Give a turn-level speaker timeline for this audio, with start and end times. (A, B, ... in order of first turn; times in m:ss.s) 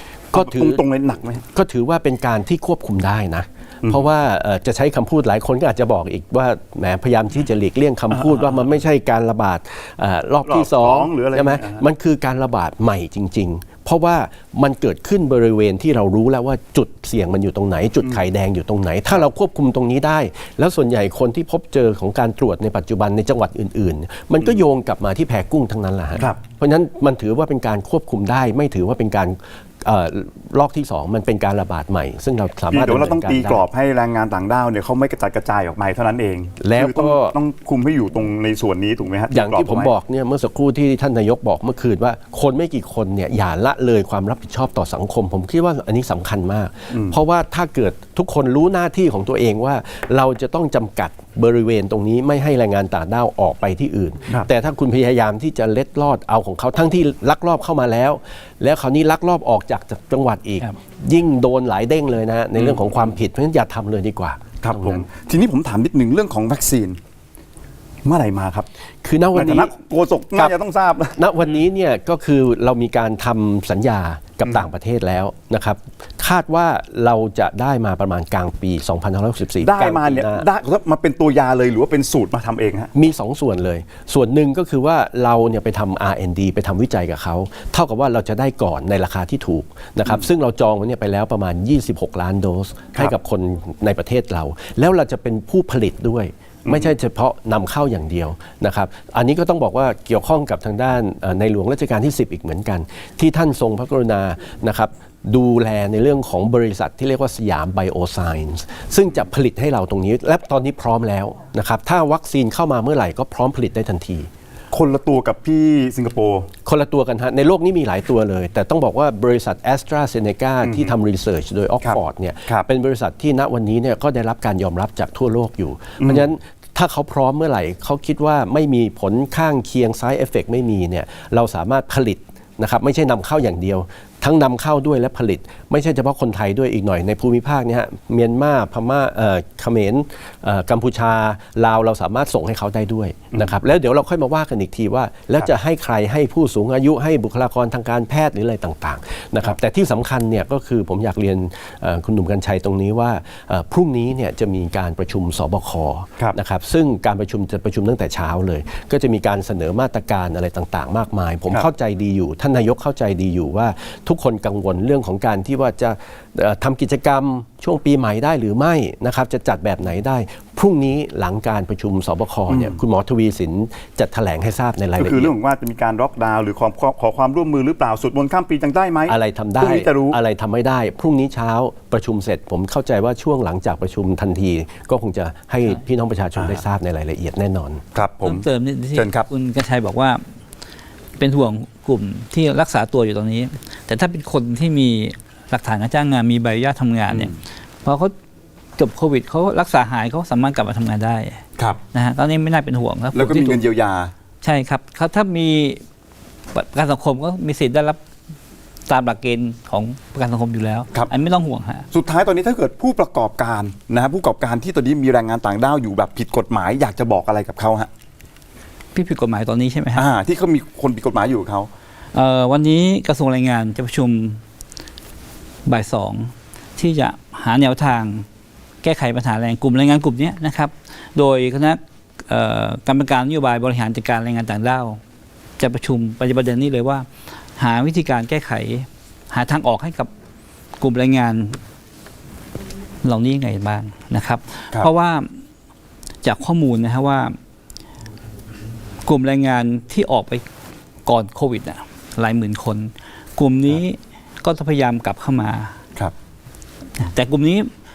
0:00.3-0:00.8 A
0:00.3-0:01.4 B
0:01.5-0:33.6 A
0:10.4-0:11.8 B
0:32.7-0:39.9 B
0:36.6-0:37.4 A
0:39.3-1:05.0 A
0:46.9-0:47.2 B
1:02.6-1:02.8 B
1:04.6-1:07.0 B
1:08.0-1:08.7 B
1:09.0-1:09.7 A
1:09.3-1:11.2 B
1:11.2-1:20.5 A
1:19.6-1:22.9 B
1:22.9-1:54.3 A
1:36.6-1:36.9 B
1:54.7-1:56.5 B
1:56.6-2:55.3 A
2:00.6-2:00.9 B
2:01.8-2:02.6 B
2:06.0-2:06.3 B
2:52.5-2:52.8 B
2:55.0-3:00.2 B
2:59.1-3:07.8 A
3:06.4-3:06.6 B
3:07.9-3:09.3 B
3:08.2-3:10.2 C
3:11.2-3:17.3 C
3:17.8-3:18.1 C
3:18.8-3:21.4 C
3:21.9-3:23.6 C
3:23.1-3:24.1 B
3:24.4-3:25.8 C
3:26.5-3:28.0 C
3:28.9-3:31.9 C
3:31.9-3:37.9 B
3:38.9-3:40.0 C
3:40.0-3:41.7 B
3:42.1-3:44.4 C
3:45.6-3:48.2 C
3:48.8-3:55.0 C
3:55.6-4:00.1 C
4:00.8-4:01.6 C
4:03.0-4:05.4 C
4:06.2-4:07.4 C
4:09.0-4:10.4 C
4:11.0-4:15.8 C
4:17.0-4:17.7 C